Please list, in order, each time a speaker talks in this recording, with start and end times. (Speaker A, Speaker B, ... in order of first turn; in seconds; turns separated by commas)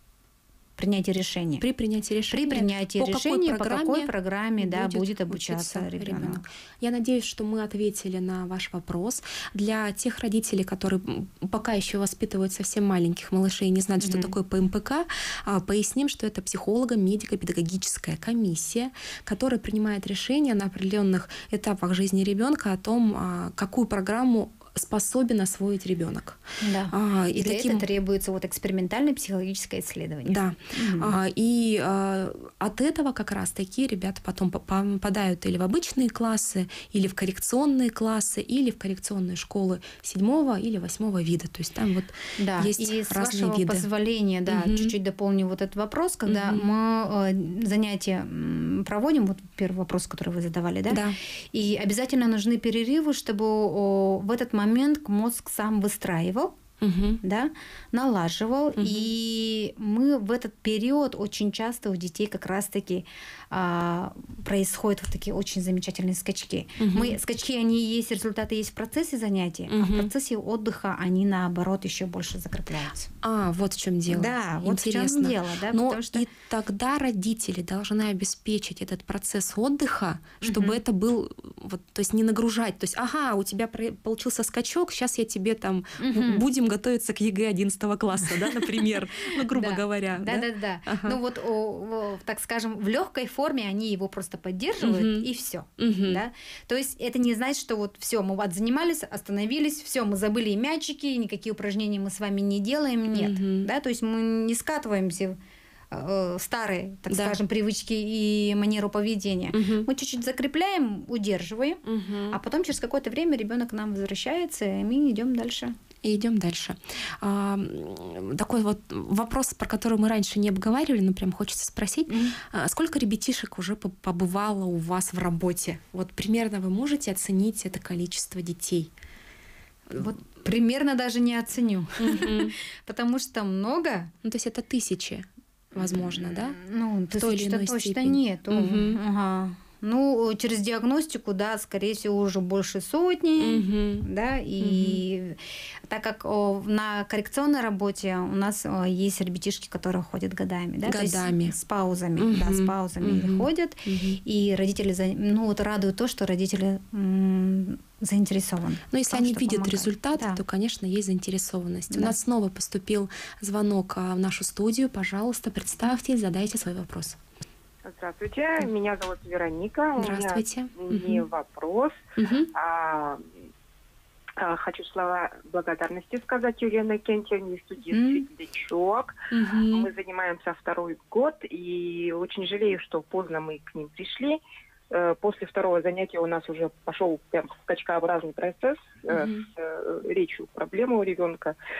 Speaker A: 0.8-1.6, Speaker B: 1.6-27.8, Speaker A: 2.3-6.4, Speaker A: 14.0-14.3, Speaker A: 26.6-31.1, Speaker B: 30.2-43.9, Speaker A: 42.4-56.6, Speaker B: 44.5-44.9, Speaker B: 46.2-46.7, Speaker B: 50.9-51.2, Speaker B: 56.8-57.2, Speaker A: 57.2-73.1, Speaker B: 58.8-59.1, Speaker B: 66.8-67.2, Speaker B: 69.7-70.1, Speaker B: 73.2-91.2, Speaker A: 74.1-76.2, Speaker A: 80.4-80.8, Speaker A: 86.0-86.4, Speaker A: 89.5-105.4, Speaker B: 94.8-96.2, Speaker B: 103.1-103.7, Speaker A: 105.9-115.8, Speaker B: 107.1-107.4, Speaker B: 109.5-109.9, Speaker B: 111.8-112.4, Speaker B: 116.0-128.9, Speaker A: 122.1-122.3, Speaker A: 129.9-134.1, Speaker B: 132.0-132.5, Speaker B: 134.2-136.6, Speaker A: 135.8-160.4, Speaker B: 137.1-139.0, Speaker B: 143.4-144.1, Speaker B: 144.6-145.0, Speaker B: 150.8-151.5, Speaker B: 152.2-154.2, Speaker B: 158.9-167.2, Speaker C: 167.8-172.0, Speaker B: 170.0-171.3, Speaker B: 172.2-172.5, Speaker C: 172.5-173.3, Speaker C: 174.4-179.1, Speaker A: 177.9-178.2, Speaker B: 179.3-179.9, Speaker C: 179.7-184.4, Speaker C: 184.9-191.6, Speaker B: 189.1-189.5